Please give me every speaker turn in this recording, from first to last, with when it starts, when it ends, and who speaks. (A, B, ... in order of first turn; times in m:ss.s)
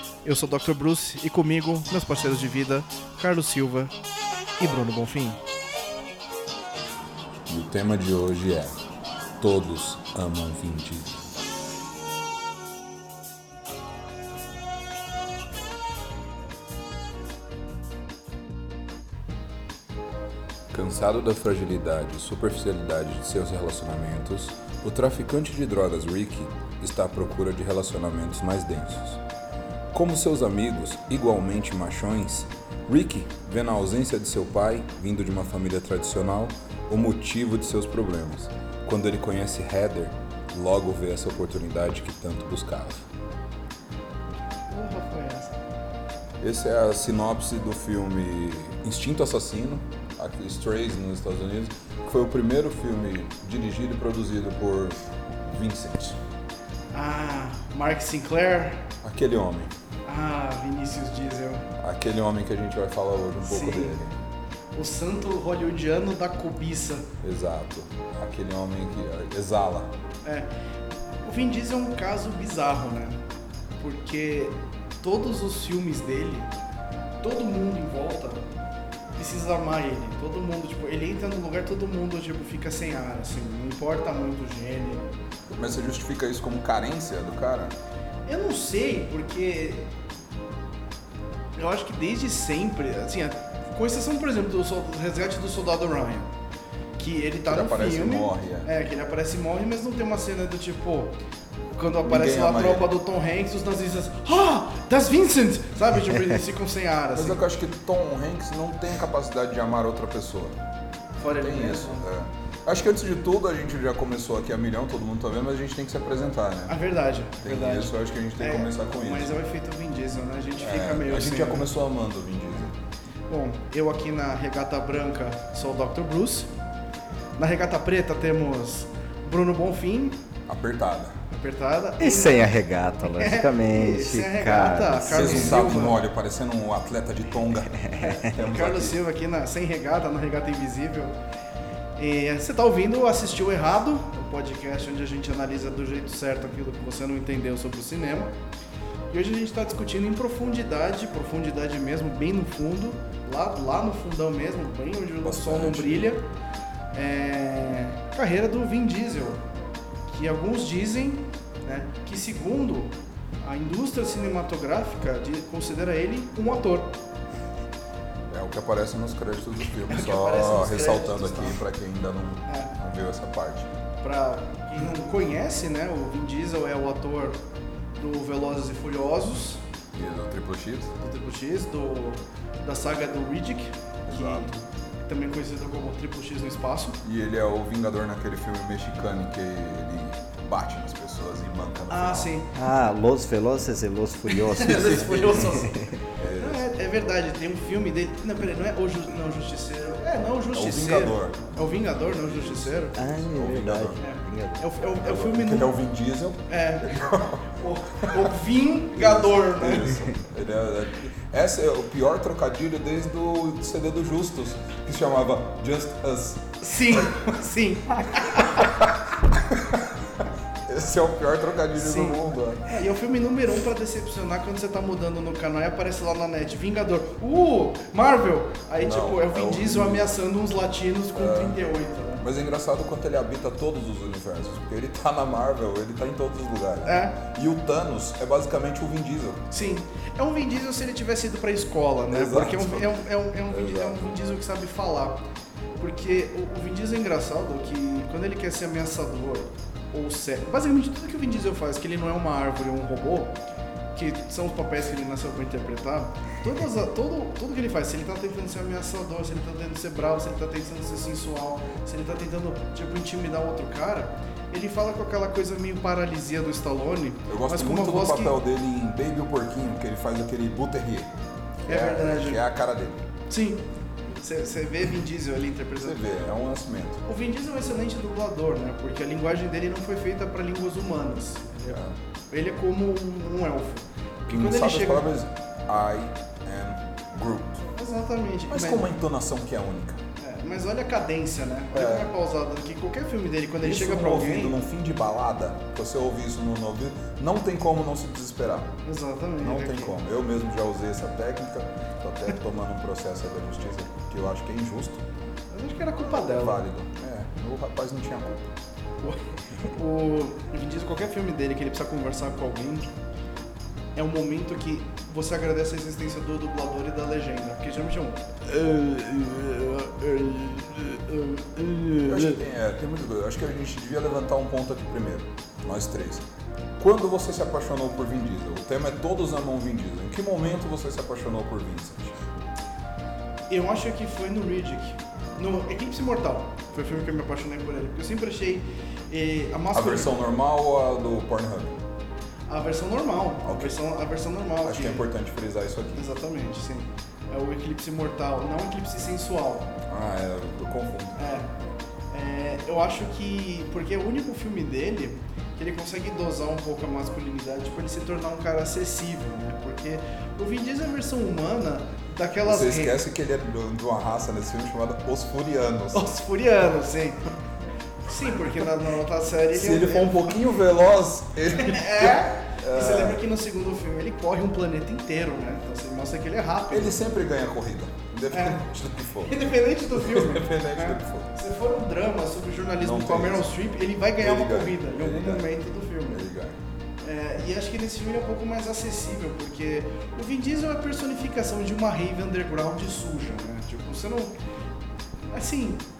0:00.2-0:03.9 A
0:04.6-0:05.4 A
0:07.5-0:08.8 B
0:09.4-0:11.3 B
0:20.7-0:29.2 B
0:29.9-0:43.1 B
0:44.7-0:45.6 A
0:46.4-0:56.2 B
0:56.9-0:58.9 A
0:59.0-0:59.7 B
1:00.1-1:01.7 A
1:01.8-1:04.1 B
1:03.4-1:04.0 A
1:04.8-1:07.1 A
1:07.2-1:09.9 B
1:10.2-1:10.5 A
1:11.2-1:13.2 A
1:13.8-1:16.5 A
1:17.2-1:18.4 A
1:19.2-1:25.1 A
1:25.5-1:27.8 B
1:28.2-1:29.9 A
1:31.6-1:36.3 A
1:37.0-1:41.2 A
1:37.4-1:38.7 B
1:41.7-1:47.4 A
1:42.0-1:42.9 B
1:47.2-1:50.6 B
1:51.2-1:52.0 A
1:51.4-1:56.8 B
1:56.7-2:01.7 A
1:57.4-1:59.4 B
2:00.6-2:02.7 B
2:03.3-2:06.5 A
2:07.4-2:10.2 A
2:10.5-2:11.2 B
2:11.3-2:16.0 A
2:12.0-2:15.7 C
2:15.1-2:19.0 B
2:17.9-2:21.1 A
2:22.0-2:28.3 A
2:29.1-2:36.2 A
2:35.2-2:36.2 B
2:36.9-2:39.4 A
2:40.1-2:46.9 A
2:48.3-2:53.7 B
2:49.8-2:51.6 A
2:52.5-2:52.7 A
2:54.0-2:57.4 A
2:58.0-2:59.6 A
2:59.9-3:00.9 B
3:01.0-3:07.0 A
3:04.1-3:04.5 B
3:07.0-3:12.4 B
3:11.9-3:12.5 A
3:12.5-3:15.9 C
3:14.4-3:15.8 A
3:14.7-3:15.3 B
3:16.2-3:16.6 B
3:16.4-3:23.0 A
3:20.5-3:24.0 B
3:22.9-3:24.7 C
3:24.0-3:25.7 A
3:24.9-3:28.3 B
3:26.5-3:27.0 A
3:27.5-3:30.2 A
3:29.0-3:37.2 B
3:36.6-3:38.7 A
3:38.5-3:42.6 B
3:41.8-3:52.2 A
3:48.8-3:50.2 B
3:51.2-3:51.6 B
3:52.2-3:59.5 B
3:56.8-3:57.2 A
3:59.5-4:05.3 A
4:02.1-4:02.9 B
4:03.5-4:04.1 B
4:05.8-4:13.4 A
4:13.9-4:28.4 A
4:27.3-4:33.0 B
4:31.7-4:32.4 A
4:33.3-4:33.6 A
4:34.2-4:36.0 A
4:35.8-4:37.0 B
4:37.1-4:45.1 A
4:44.3-4:47.6 B
4:47.8-4:48.9 A
4:48.5-4:50.0 B
4:50.2-4:54.6 A
4:51.7-4:52.1 B
4:53.6-4:58.7 B
4:58.8-5:00.0 A
4:59.4-5:05.0 B
5:05.5-5:06.6 A
5:06.0-5:08.5 B
5:09.0-5:12.9 A
5:14.0-5:22.4 A
5:22.1-5:26.2 B
5:26.8-5:32.2 B
5:33.5-5:40.2 A
5:39.7-5:41.8 B
5:42.5-5:45.1 A
5:43.4-5:43.8 B
5:44.6-5:46.1 B
5:45.9-5:49.8 A
5:49.9-5:51.2 B
5:51.2-5:51.5 A
5:52.1-6:03.0 A
6:02.4-6:06.0 B
6:05.9-6:07.2 A
6:08.1-6:10.4 A
6:09.5-6:13.2 B
6:11.5-6:17.0 A
6:16.7-6:21.3 B
6:18.3-6:18.6 A
6:19.2-6:26.2 A
6:22.8-6:23.5 B
6:24.2-6:25.5 B
6:26.1-6:26.6 B
6:27.0-6:34.4 A
6:35.3-6:35.8 A